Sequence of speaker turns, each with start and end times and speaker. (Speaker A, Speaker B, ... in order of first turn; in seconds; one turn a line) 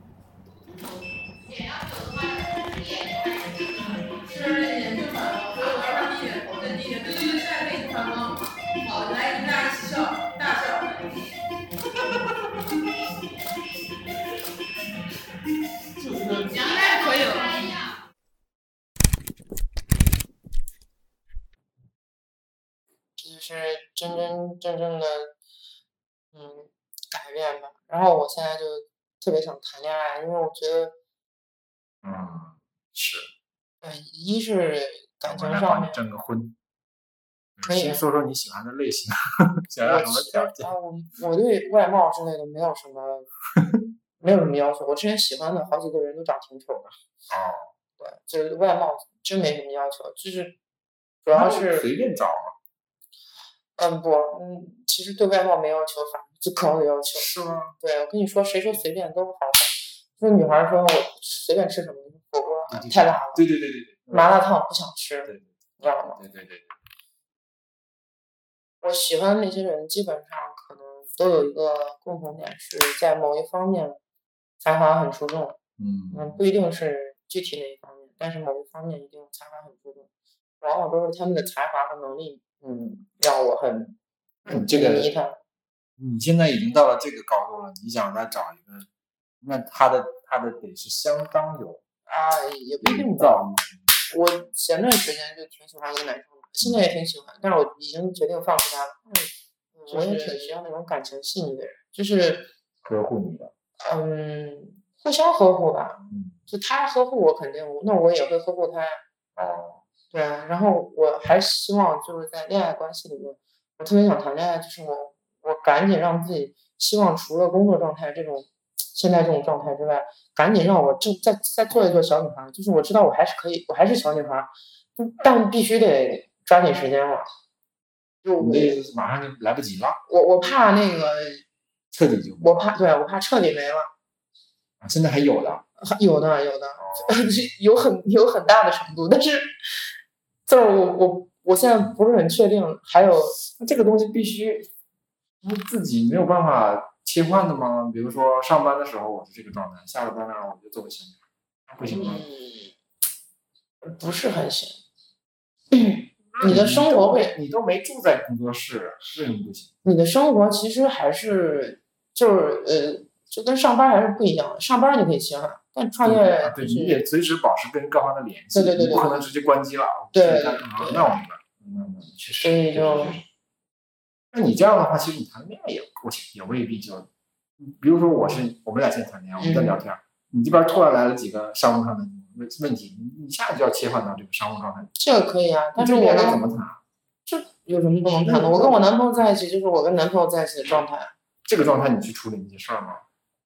Speaker A: 1.4-4.8
Speaker B: 4.3-11.0
Speaker A: 5.4-6.5
Speaker A: 16.1-18.0
Speaker B: 16.2-17.6
Speaker C: 23.2-25.3
Speaker C: 26.3-30.9
Speaker D: 32.0-33.3
Speaker C: 33.8-36.0
Speaker D: 35.2-36.6
Speaker D: 37.6-40.8
Speaker C: 37.6-38.0
Speaker C: 39.8-43.3
Speaker C: 44.2-46.9
Speaker D: 47.3-47.7
Speaker C: 48.0-50.6
Speaker C: 51.2-51.9
Speaker D: 51.3-52.5
Speaker C: 53.8-63.5
Speaker D: 57.1-57.8
Speaker D: 62.7-64.4
Speaker C: 64.1-66.2
Speaker D: 66.2-66.7
Speaker C: 68.8-74.0
Speaker C: 74.6-75.6
Speaker D: 75.8-76.4
Speaker C: 76.1-80.1
Speaker C: 80.6-84.0
Speaker D: 84.5-85.1
Speaker C: 84.5-85.4
Speaker D: 86.0-88.9
Speaker D: 89.4-91.8
Speaker C: 92.1-93.5
Speaker D: 92.8-94.1
Speaker C: 94.1-102.5
Speaker D: 96.6-96.9
Speaker D: 99.9-100.5
Speaker D: 102.8-103.5
Speaker C: 103.8-109.0
Speaker D: 106.1-106.4
Speaker D: 109.4-109.8
Speaker C: 110.1-127.3
Speaker C: 128.2-128.8
Speaker D: 128.4-130.0
Speaker C: 130.1-131.4
Speaker D: 131.9-132.8
Speaker C: 132.4-133.9
Speaker D: 134.8-135.6
Speaker C: 135.8-139.6
Speaker D: 136.8-137.5
Speaker C: 140.5-143.4
Speaker D: 143.3-144.7
Speaker D: 145.4-152.3
Speaker C: 151.8-152.7
Speaker C: 153.8-154.8
Speaker C: 155.7-157.3
Speaker D: 156.3-159.7
Speaker C: 159.8-167.0
Speaker D: 166.0-173.2
Speaker C: 168.5-169.3
Speaker C: 170.1-171.2
Speaker C: 172.4-173.2
Speaker D: 174.3-177.1
Speaker D: 177.6-184.9
Speaker C: 179.4-179.8
Speaker C: 185.0-186.4
Speaker D: 185.8-186.8
Speaker C: 187.3-191.1
Speaker D: 188.1-188.8
Speaker D: 191.4-193.0